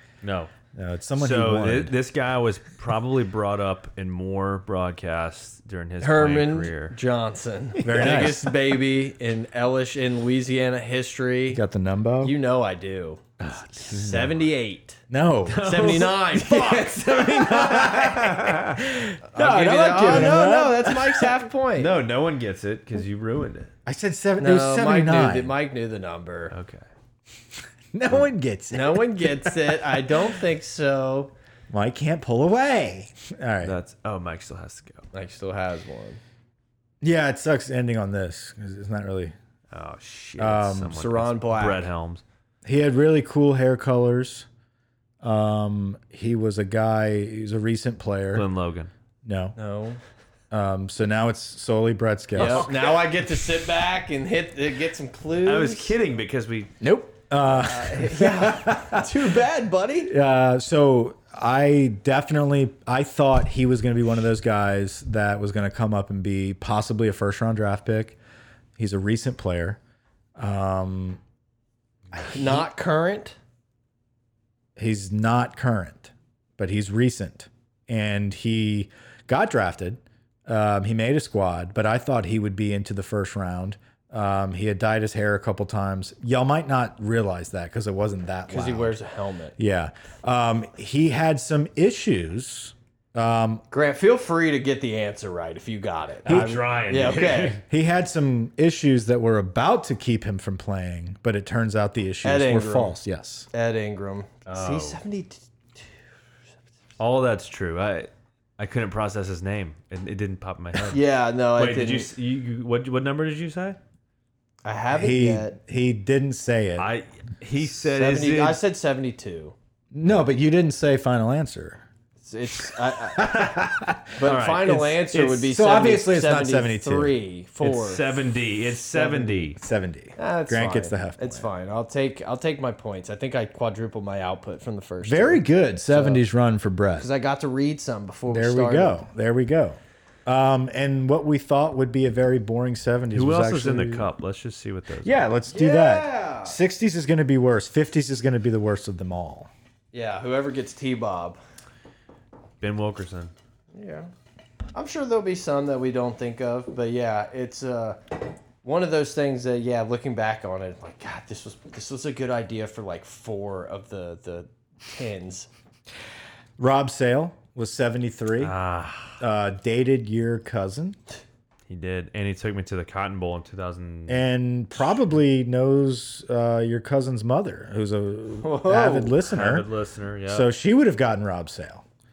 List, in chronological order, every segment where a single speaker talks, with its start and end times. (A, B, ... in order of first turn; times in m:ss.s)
0:00.2-0:00.5 A
0:00.7-0:01.9 B
0:01.2-0:06.9 A
0:06.0-0:11.6 C
0:07.8-0:08.5 B
0:11.5-0:12.3 B
0:12.2-0:13.2 C
0:13.4-0:14.2 B
0:13.8-0:15.0 C
0:13.9-0:14.4 A
0:15.1-0:21.4 B
0:15.4-0:18.9 A
0:15.6-0:17.6 C
0:19.3-0:21.9 C
0:21.8-0:23.7 A
0:23.8-0:25.5 B
0:24.4-0:26.5 C
0:26.5-0:26.9 A
0:27.9-0:30.0 B
0:28.7-0:31.3 C
0:31.7-0:33.8 B
0:33.6-0:35.1 A
0:35.1-0:36.2 C
0:37.0-0:39.3 B
0:39.7-0:42.2 A
0:40.4-0:41.0 B
0:40.9-0:41.8 C
0:42.6-0:44.5 B
0:45.2-0:48.4 B
0:48.3-0:48.9 A
0:49.2-0:49.6 B
0:49.6-0:50.0 C
0:50.5-0:52.7 B
0:52.4-0:56.0 C
0:55.4-0:56.8 A
0:56.8-0:59.1 B
0:57.5-1:00.1 C
1:00.1-1:08.2 B
1:08.8-1:09.8 B
1:10.4-1:11.2 B
1:12.1-1:12.6 B
1:12.2-1:13.4 C
1:14.8-1:28.9 B
1:28.5-1:29.6 C
1:29.6-1:33.6 B
1:33.7-1:37.6 C
1:36.2-1:37.6 A
1:36.2-1:36.6 B
1:37.6-1:43.5 B
1:42.2-1:42.9 C
1:43.5-1:45.4 C
1:44.5-1:45.0 A
1:47.0-1:51.0 A
1:50.8-1:52.1 C
1:51.6-1:53.8 A
1:54.6-1:55.6 C
1:54.9-1:56.9 B
1:56.8-1:58.6 A
1:57.9-1:59.5 C
1:59.9-2:01.8 B
2:02.2-2:03.5 C
2:03.2-2:04.2 B
2:04.2-2:08.1 C
2:04.2-2:05.5 A
2:05.4-2:07.2 B
2:07.6-2:09.6 A
2:08.9-2:09.5 C
2:09.6-2:11.5 B
2:10.2-2:16.2 C
2:15.0-2:17.1 B
2:17.0-2:19.0 C
2:18.3-2:24.1 B
2:23.1-2:25.2 A
2:25.0-2:29.5 B
2:25.5-2:26.6 C
2:29.9-2:31.4 C
2:32.6-2:33.3 A
2:33.7-2:34.1 C
2:34.7-2:45.5 C
2:46.6-2:48.5 B
2:48.4-2:49.2 A
2:49.2-2:51.0 B
2:51.7-2:54.2 A
2:54.1-2:59.7 B
2:58.4-2:59.2 C
2:59.3-3:00.5 A
3:00.3-3:01.8 B